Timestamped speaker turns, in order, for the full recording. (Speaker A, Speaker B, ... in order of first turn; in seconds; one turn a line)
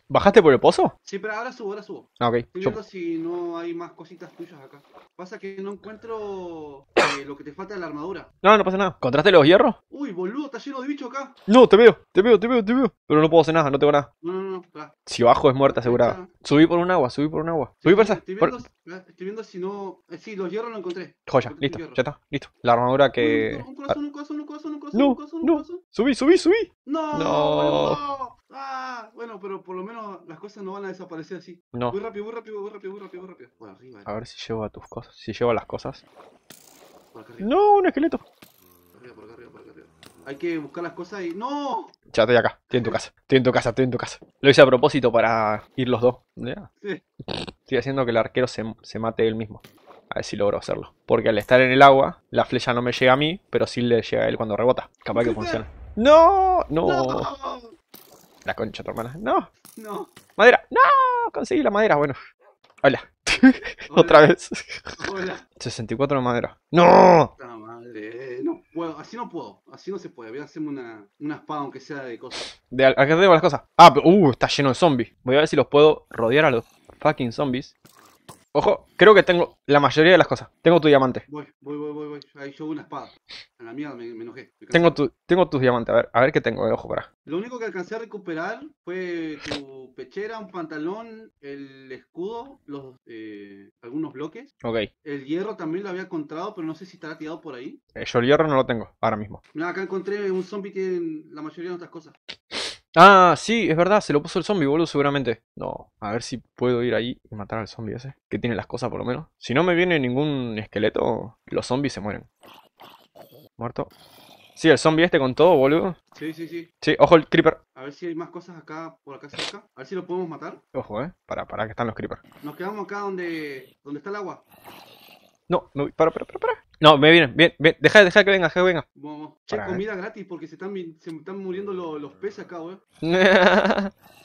Speaker A: 0.1-0.9
Speaker B: 1.0-8.3
Speaker A: 2.2-2.8
Speaker A: 8.4-9.8
Speaker B: 9.9-11.3
Speaker A: 11.5-14.1
Speaker B: 14.2-14.9
Speaker A: 15.1-18.6
Speaker B: 15.6-16.3
Speaker B: 17.8-22.0
Speaker A: 21.3-23.9
Speaker B: 23.2-25.8
Speaker A: 24.9-28.0
Speaker B: 26.9-34.1
Speaker A: 34.0-36.0
Speaker B: 37.1-37.5
Speaker A: 37.4-38.2
Speaker B: 39.0-41.9
Speaker A: 42.1-46.7
Speaker B: 42.7-43.0
Speaker A: 47.3-57.3
Speaker B: 55.1-55.6
Speaker B: 56.8-57.7
Speaker A: 58.5-59.5
Speaker B: 59.7-60.1
Speaker A: 60.4-62.2
Speaker A: 62.8-65.0
Speaker B: 63.9-64.3
Speaker B: 65.0-65.4
Speaker A: 65.6-67.3
Speaker B: 67.4-72.5
Speaker A: 72.7-77.7
Speaker A: 78.5-81.2
Speaker B: 81.3-85.0
Speaker A: 84.7-87.1
Speaker B: 87.2-94.5
Speaker A: 94.6-94.9
Speaker B: 95.0-97.8
Speaker A: 98.0-99.4
Speaker B: 99.5-102.1
Speaker A: 102.9-112.2
Speaker A: 113.6-113.9
Speaker A: 114.6-116.0
Speaker B: 116.1-116.7
Speaker A: 116.8-117.6
Speaker B: 117.8-120.6
Speaker A: 120.7-122.2
Speaker B: 122.4-124.4
Speaker A: 125.5-128.8
Speaker B: 128.9-132.8
Speaker A: 129.5-129.8
Speaker A: 133.0-133.9